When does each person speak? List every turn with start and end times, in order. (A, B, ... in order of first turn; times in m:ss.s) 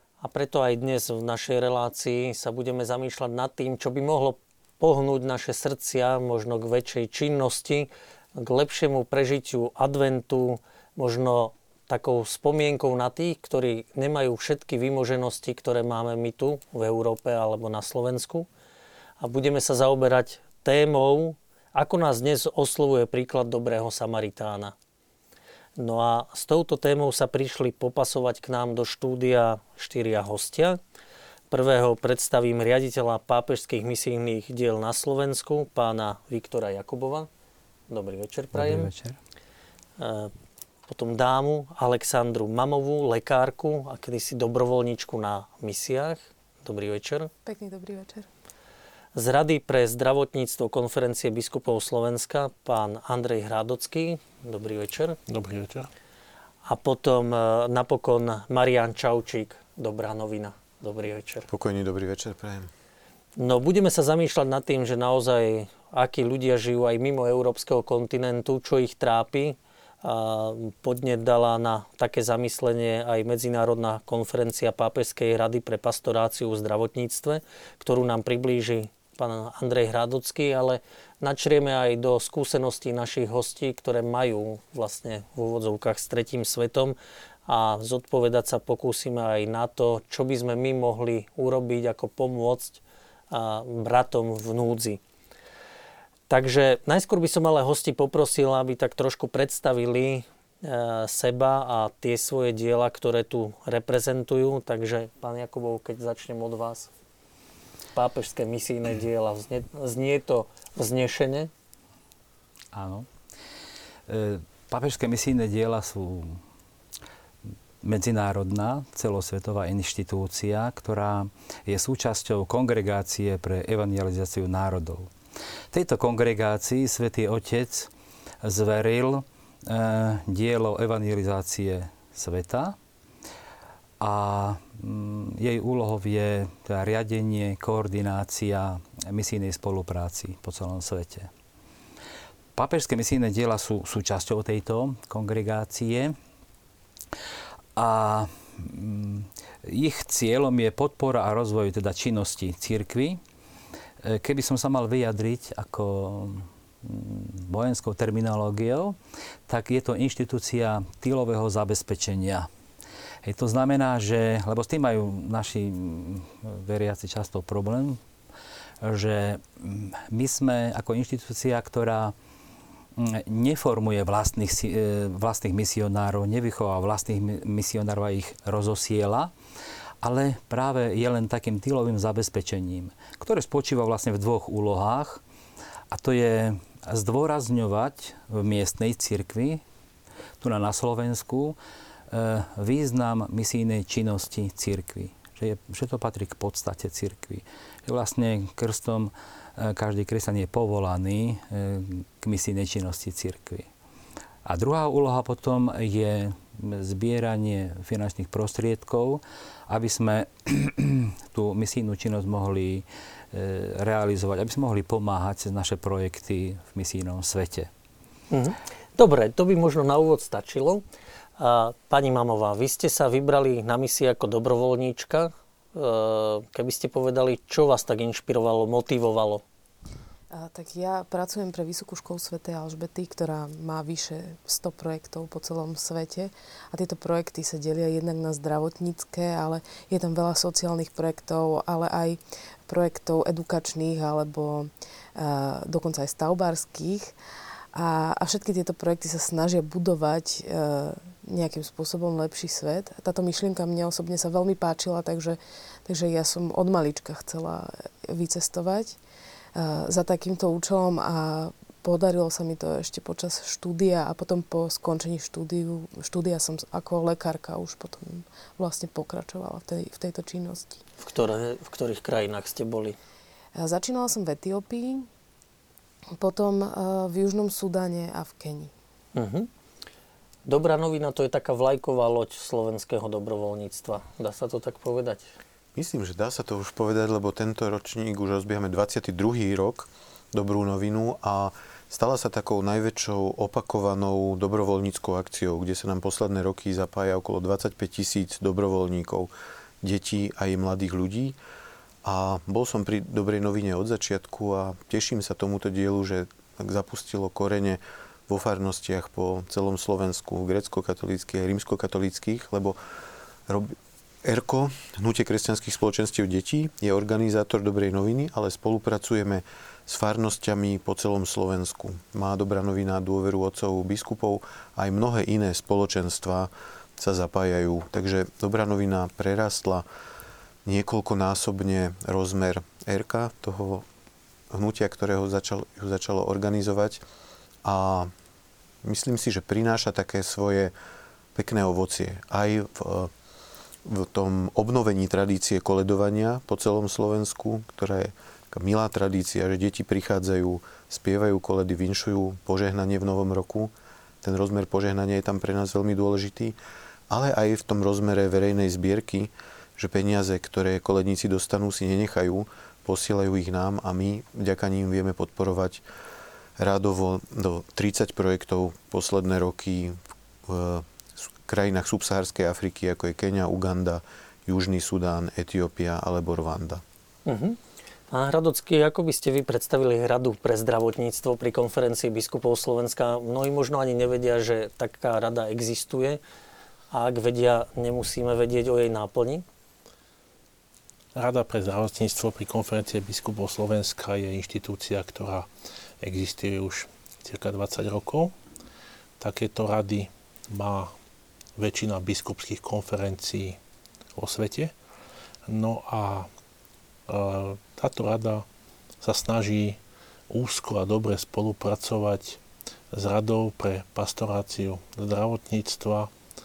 0:00.2-0:18.5 A
0:19.2-0:24.7 A
0:25.8-0:30.8 A
0:31.5-0:37.3 A
0:37.9-0:38.9 A
0:38.5-0:39.2 B
0:40.0-0:40.3 A
0:40.9-0:47.3 A
0:47.4-0:48.3 C
0:49.1-0:55.2 A
0:55.3-0:55.9 D
0:56.6-1:01.5 A
1:01.5-1:02.7 E
1:03.4-1:27.0 A
1:27.5-1:35.0 A
1:36.3-1:46.9 A
1:47.9-1:51.5 A
1:52.7-1:53.1 B
1:54.1-1:56.4 B
1:57.8-2:05.1 B
2:05.7-2:07.9 B
2:08.4-2:12.8 B
2:14.0-2:21.3 B
2:22.5-2:26.2 B
2:27.8-2:33.2 B
2:34.0-2:39.0 B
2:39.5-2:42.5 B
2:43.2-2:48.0 B
2:48.8-2:52.1 B
2:53.0-2:59.3 B
3:00.0-3:05.2 B
3:05.9-3:09.6 B
3:10.4-3:11.6 B
3:12.1-3:23.7 B
3:24.4-3:37.7 B
3:38.3-3:40.8 A
3:41.4-3:49.4 A
3:50.3-4:07.1 C
4:07.7-4:19.0 C
4:19.6-4:30.8 C
4:31.0-4:33.0 A
4:33.5-4:35.1 C
4:36.2-4:38.7 C
4:39.1-4:39.5 A
4:40.4-4:45.3 A
4:45.7-4:59.3 E
4:59.8-5:01.4 E
5:02.0-5:12.8 E
5:13.5-5:29.8 E
5:30.6-5:33.8 E
5:34.5-5:37.0 E
5:37.6-5:38.1 E
5:38.8-5:40.7 E
5:41.3-5:43.1 E
5:43.8-5:56.6 E
5:57.1-6:05.8 E
6:06.6-6:16.8 E
6:17.3-6:17.6 A
6:18.1-6:26.2 A
6:26.9-6:29.4 A
6:31.1-6:35.5 D
6:36.0-6:38.3 D
6:39.2-6:40.9 D
6:41.6-6:43.6 D
6:44.2-6:44.7 D
6:45.5-6:46.3 D
6:47.1-6:48.4 D
6:49.0-6:52.4 D
6:52.9-6:56.1 D